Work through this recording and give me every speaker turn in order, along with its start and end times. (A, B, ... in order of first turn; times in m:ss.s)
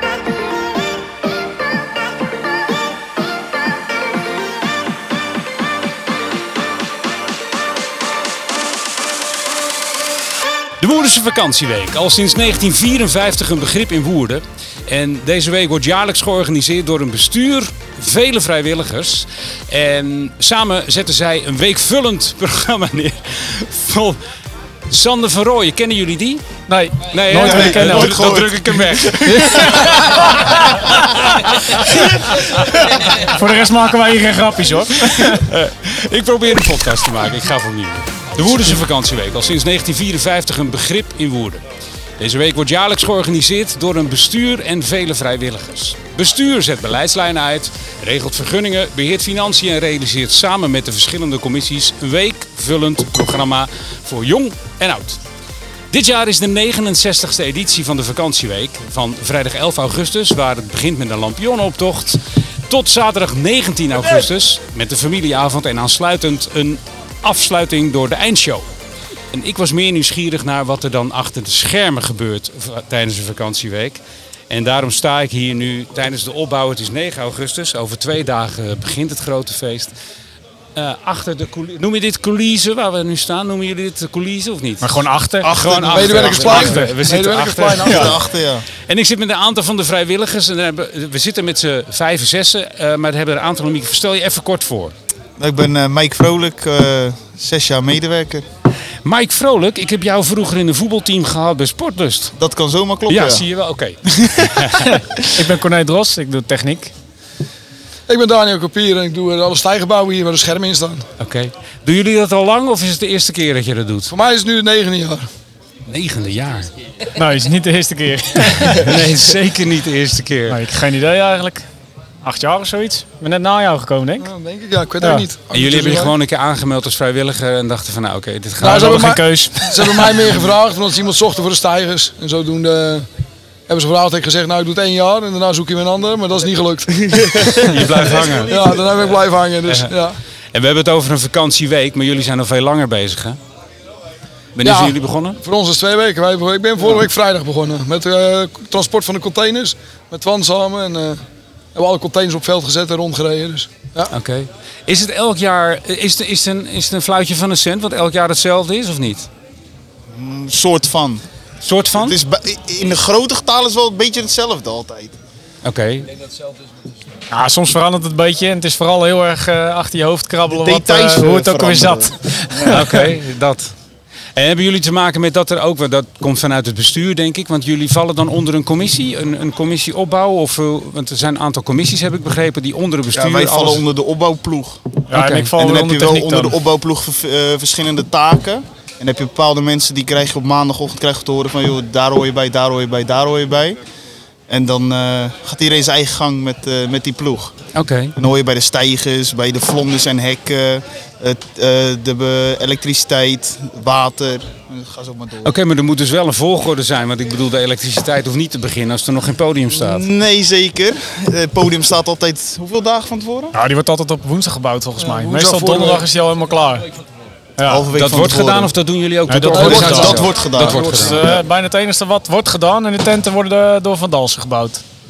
0:10.8-0:24.2 A
0:24.9-0:26.4 A
0:26.7-0:28.4 B
0:27.1-0:29.8 A
0:27.3-0:29.9 C
0:29.2-0:35.5 B
0:35.2-0:41.6 A
0:42.2-0:55.2 A
0:55.9-1:08.6 A
1:09.3-1:14.0 A
1:14.5-1:19.9 A
1:20.8-1:24.9 A
1:24.8-1:25.5 B
1:25.4-1:28.2 A
1:25.4-1:26.7 C
1:25.9-1:28.2 D
1:26.4-1:26.8 B
1:27.8-1:28.7 C
1:28.9-1:34.9 A
1:35.4-1:38.4 C
1:39.0-1:42.3 A
1:42.4-1:43.4 C
1:43.1-1:45.0 A
1:44.1-1:45.0 C
1:45.3-1:46.9 B
1:48.1-1:51.1 D
1:51.2-1:54.1 A
1:54.1-1:55.3 D
1:55.9-1:56.7 A
1:57.1-1:59.0 B
1:58.6-2:00.6 A
2:00.5-2:01.7 B
2:02.2-2:04.3 B
2:04.2-2:06.1 D
2:05.0-2:05.3 B
2:05.5-2:09.2 A
2:08.6-2:13.1 D
2:08.7-2:10.2 B
2:13.7-2:20.2 D
2:17.5-2:18.8 A
2:19.7-2:19.9 A
2:20.5-2:23.4 A
2:24.6-2:25.4 A
2:24.6-2:31.2 D
2:31.8-2:34.1 D
2:34.1-2:39.3 A
2:40.1-2:41.2 C
2:41.6-2:42.2 A
2:42.0-2:45.2 C
2:45.6-2:46.1 A
2:47.3-2:53.1 B
2:50.6-2:52.8 C
2:52.7-2:53.7 A
2:54.4-3:03.8 A
3:03.1-3:04.8 C
3:05.1-3:06.6 B
3:05.1-3:05.5 A
3:05.5-3:13.8 C
3:14.5-3:17.6 C
3:17.8-3:18.2 A
3:18.2-3:25.6 C
3:25.4-3:30.1 A
3:29.7-3:33.5 C
3:33.5-3:36.9 B
3:35.0-3:36.0 D
3:37.6-3:37.9 B
3:37.7-3:38.7 C
3:37.9-3:41.3 A
3:39.3-3:40.2 B
3:39.5-3:41.4 C
3:39.5-3:41.0 D
3:40.8-3:44.8 B